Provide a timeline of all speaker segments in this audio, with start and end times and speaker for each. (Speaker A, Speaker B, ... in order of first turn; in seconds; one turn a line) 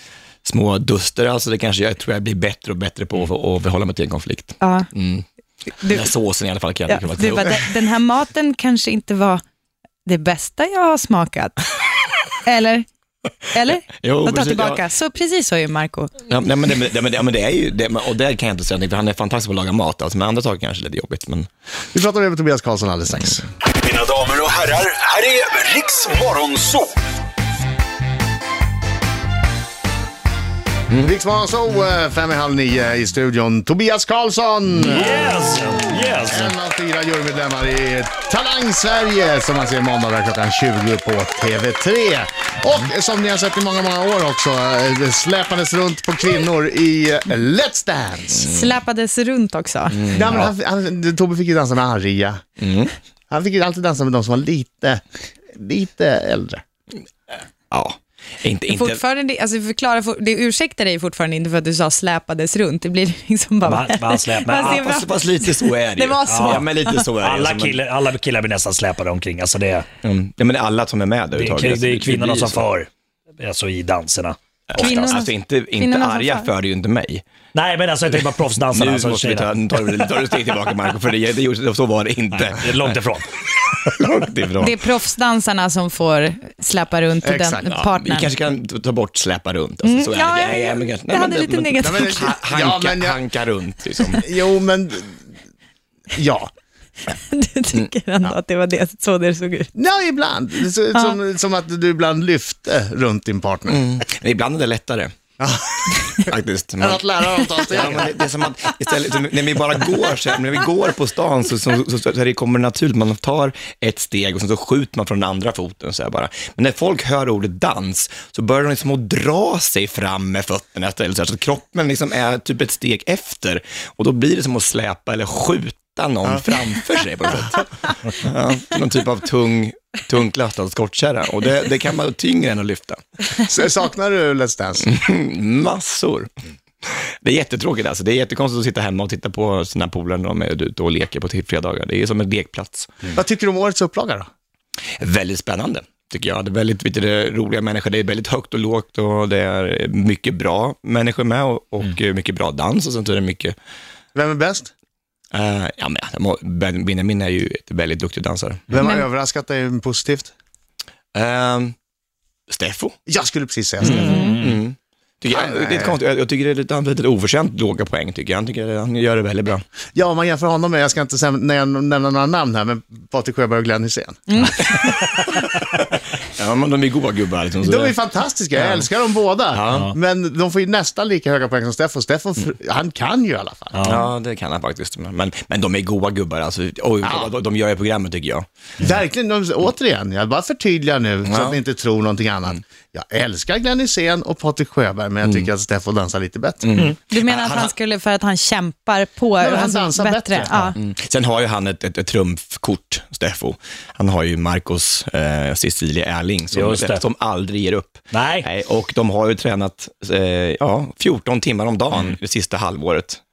Speaker A: 0.4-5.2
Speaker B: 4.6-4.9
Speaker B: 5.8-6.1
Speaker A: 5.9-7.7
Speaker B: 6.9-9.4
Speaker B: 10.1-11.7
Speaker B: 12.4-12.8
Speaker B: 13.5-16.1
Speaker A: 14.0-14.8
Speaker A: 16.3-21.5
Speaker C: 21.9-23.4
Speaker D: 23.8-26.9
Speaker C: 31.0-35.3
Speaker E: 34.8-36.5
Speaker C: 36.2-48.4
Speaker B: 48.4-50.0
Speaker A: 49.9-50.5
Speaker C: 50.1-52.4
Speaker A: 52.6-52.9
Speaker C: 53.3-55.0
Speaker C: 55.5-56.6
Speaker A: 57.7-59.0
Speaker B: 58.7-67.1
Speaker E: 63.6-64.8
Speaker A: 64.6-67.8
Speaker E: 66.3-66.7
Speaker E: 67.2-69.9
Speaker A: 70.0-72.6
Speaker E: 71.3-72.9
Speaker E: 73.4-75.1
Speaker A: 74.7-77.2
Speaker B: 74.8-76.5
Speaker E: 77.5-79.5
Speaker A: 78.7-82.9
Speaker E: 82.6-83.3
Speaker A: 83.8-84.7
Speaker B: 84.6-88.3
Speaker C: 87.2-87.8
Speaker A: 87.7-94.2
Speaker B: 89.8-92.3
Speaker C: 91.8-93.2
Speaker C: 94.1-95.2
Speaker C: 96.1-96.5
Speaker B: 97.1-99.7
Speaker C: 99.7-103.8
Speaker A: 103.7-105.1
Speaker C: 105.4-106.1
Speaker A: 106.3-133.0
Speaker C: 106.8-108.1
Speaker C: 133.4-134.9
Speaker A: 134.8-136.3
Speaker A: 136.8-143.1
Speaker C: 143.1-144.3
Speaker A: 145.0-153.5
Speaker C: 154.1-154.7
Speaker A: 155.3-158.7
Speaker C: 158.7-160.3
Speaker B: 158.8-159.0
Speaker A: 161.1-161.7
Speaker A: 162.5-162.9
Speaker C: 163.1-164.3
Speaker A: 163.8-169.6
Speaker B: 163.9-164.4
Speaker C: 165.3-166.0
Speaker C: 169.9-174.2
Speaker B: 174.3-174.6
Speaker A: 174.6-177.9
Speaker C: 177.6-183.9
Speaker A: 178.5-178.9
Speaker A: 179.5-179.9
Speaker E: 183.8-184.1
Speaker A: 183.8-188.4
Speaker C: 187.0-187.3
Speaker C: 188.8-196.8
Speaker A: 191.2-191.6
Speaker A: 196.6-197.7
Speaker B: 197.1-200.8
Speaker C: 199.4-200.5
Speaker A: 200.8-213.2
Speaker E: 206.5-207.0
Speaker E: 208.1-208.5